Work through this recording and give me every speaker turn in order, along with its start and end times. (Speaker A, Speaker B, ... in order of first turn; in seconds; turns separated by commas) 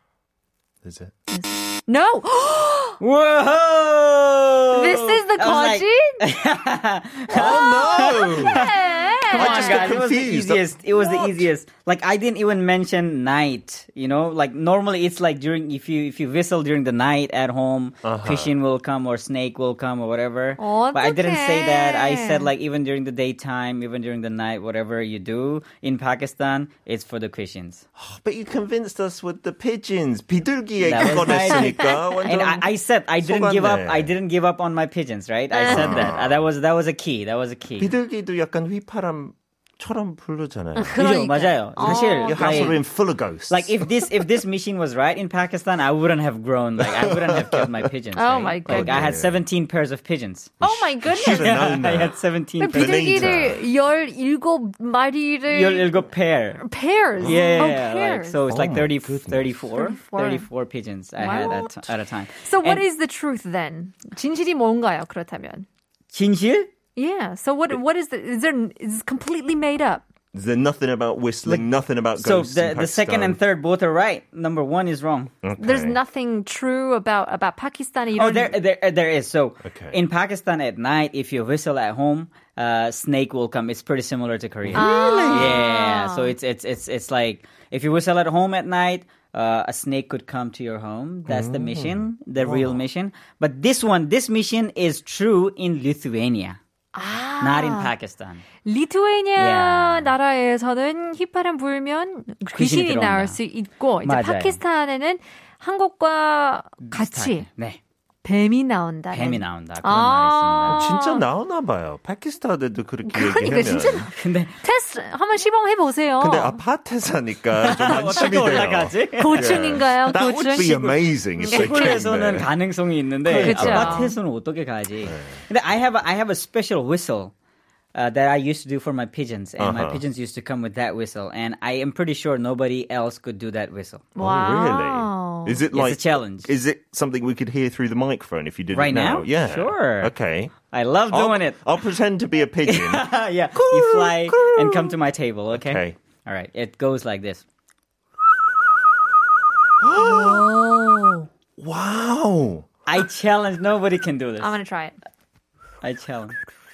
Speaker A: 0.8-1.1, Speaker B: 1.3-3.0, Speaker C: 3.0-27.8, Speaker B: 4.7-6.2, Speaker A: 7.3-8.7, Speaker B: 7.3-10.1, Speaker A: 9.3-10.7, Speaker B: 11.0-11.4, Speaker A: 18.0-18.5, Speaker B: 20.6-22.5, Speaker A: 27.9-32.7, Speaker C: 30.8-37.9, Speaker B: 31.2-32.0, Speaker A: 33.2-34.1, Speaker B: 35.5-36.1, Speaker A: 35.7-36.4, Speaker A: 37.8-41.0, Speaker B: 40.8-42.8, Speaker C: 41.0-42.8, Speaker A: 41.8-43.9, Speaker C: 43.5-50.6, Speaker A: 46.8-47.9, Speaker B: 48.1-49.0, Speaker A: 48.7-49.4, Speaker B: 50.6-51.6, Speaker A: 50.6-53.6, Speaker C: 51.1-53.4, Speaker B: 52.6-56.0, Speaker C: 55.5-56.6, Speaker B: 56.6-58.4, Speaker A: 57.2-57.8, Speaker C: 57.2-62.8, Speaker A: 58.5-59.6, Speaker B: 59.7-60.5, Speaker B: 61.2-61.8, Speaker B: 62.4-65.7, Speaker C: 66.1-66.7, Speaker B: 67.0-70.0, Speaker A: 70.3-73.4, Speaker C: 72.2-75.3, Speaker A: 75.4-76.0, Speaker B: 75.6-78.5, Speaker C: 78.1-96.6, Speaker A: 79.6-80.0, Speaker A: 84.6-85.6, Speaker B: 84.7-86.3, Speaker A: 91.3-92.8, Speaker B: 96.9-97.9, Speaker C: 97.4-98.4, Speaker B: 98.6-107.5, Speaker C: 99.3-100.1, Speaker C: 102.5-103.4, Speaker C: 104.0-104.6, Speaker C: 106.9-107.8, Speaker B: 108.2-111.2, Speaker C: 109.1-110.9, Speaker A: 110.7-114.1, Speaker B: 113.0-116.6, Speaker C: 114.1-114.5, Speaker A: 116.2-122.5, Speaker C: 117.6-119.7, Speaker B: 119.1-122.0, Speaker C: 121.5-127.3, Speaker A: 123.3-124.1, Speaker B: 123.3-124.1, Speaker C: 127.9-134.1, Speaker A: 129.6-130.0, Speaker B: 134.2-135.6, Speaker A: 134.2-140.5, Speaker C: 135.7-136.5, Speaker C: 138.7-140.1, Speaker C: 140.7-141.6, Speaker A: 141.1-145.0, Speaker C: 142.7-147.4, Speaker A: 145.5-146.0, Speaker A: 149.8-150.5, Speaker B: 150.0-151.3, Speaker A: 151.6-152.7, Speaker C: 152.8-154.6, Speaker B: 154.4-154.9, Speaker C: 155.8-156.3